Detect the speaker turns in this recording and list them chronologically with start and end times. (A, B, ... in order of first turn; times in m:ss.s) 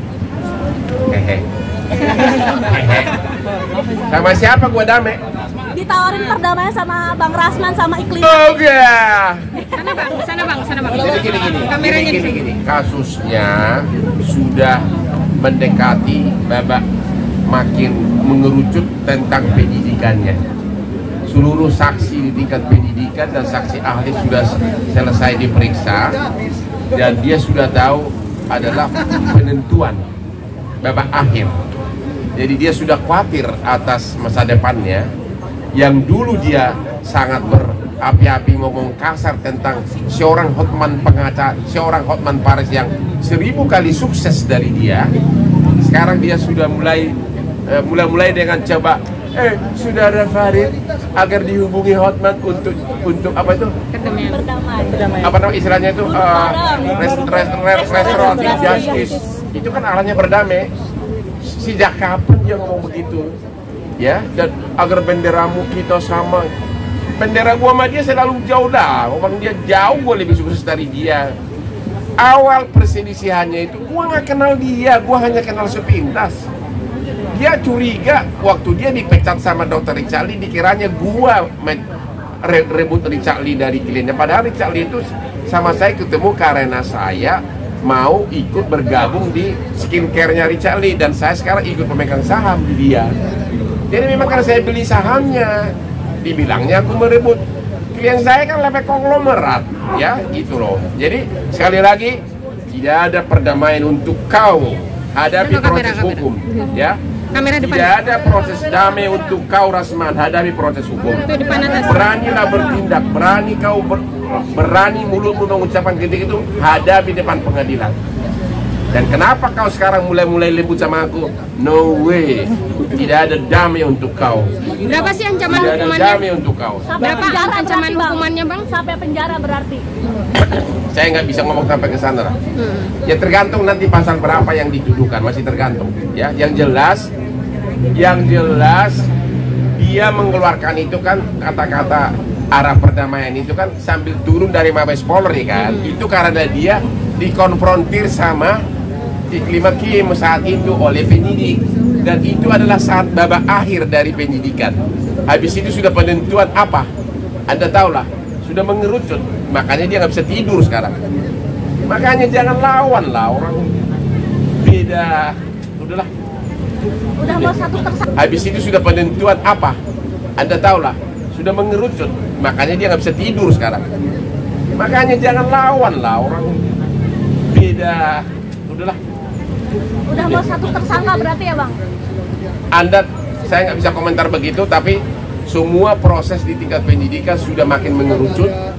0:01.1-0:01.4 A
0:02.5-0:03.1 A
0:04.1-0:05.2 A
0:05.7-0:08.5 B
0:08.2-0:09.5 A
0:09.7-0:12.4 C
0:11.0-0:14.8 A
0:15.4-0:16.8 A
0:17.5-0:20.4 A
0:21.3-0:26.2 A
0:26.9-0:30.0 A
0:30.8-0:31.6 A
0:32.4-0:35.1 A
0:35.7-0:45.1 A
0:45.8-0:47.2 A
0:47.7-0:53.7 A
0:53.9-0:54.4 C
0:54.2-0:55.2 B
0:55.1-1:00.7 A
0:56.0-0:57.2 B
0:57.7-0:59.2 B
1:01.4-1:03.3 A
1:04.0-1:06.5 A
1:07.2-1:11.4 A
1:12.2-1:16.4 A
1:17.3-1:21.8 A
1:22.4-1:33.1 A
1:33.9-1:37.4 A
1:37.9-1:47.0 A
1:45.4-1:46.7 C
1:47.3-1:47.9 C
1:47.6-1:58.0 A
1:51.2-1:52.1 C
1:58.9-2:04.6 A
2:04.8-2:06.2 C
2:05.5-2:06.9 A
2:06.9-2:09.8 B
2:07.0-2:08.7 C
2:10.7-2:12.4 A
2:12.6-2:12.9 C
2:13.0-2:17.1 A
2:17.9-2:19.1 A
2:19.8-2:28.6 A
2:25.6-2:25.9 C
2:29.3-2:36.9 A
2:37.5-2:41.0 A
2:41.8-2:43.8 A
2:44.6-2:46.1 A
2:47.2-2:48.0 B
2:48.2-2:49.8 A
2:50.4-2:53.8 A
2:54.7-2:56.6 A
2:57.5-2:59.0 A
3:00.1-3:01.8 B
3:00.2-3:00.4 A
3:02.7-3:08.5 A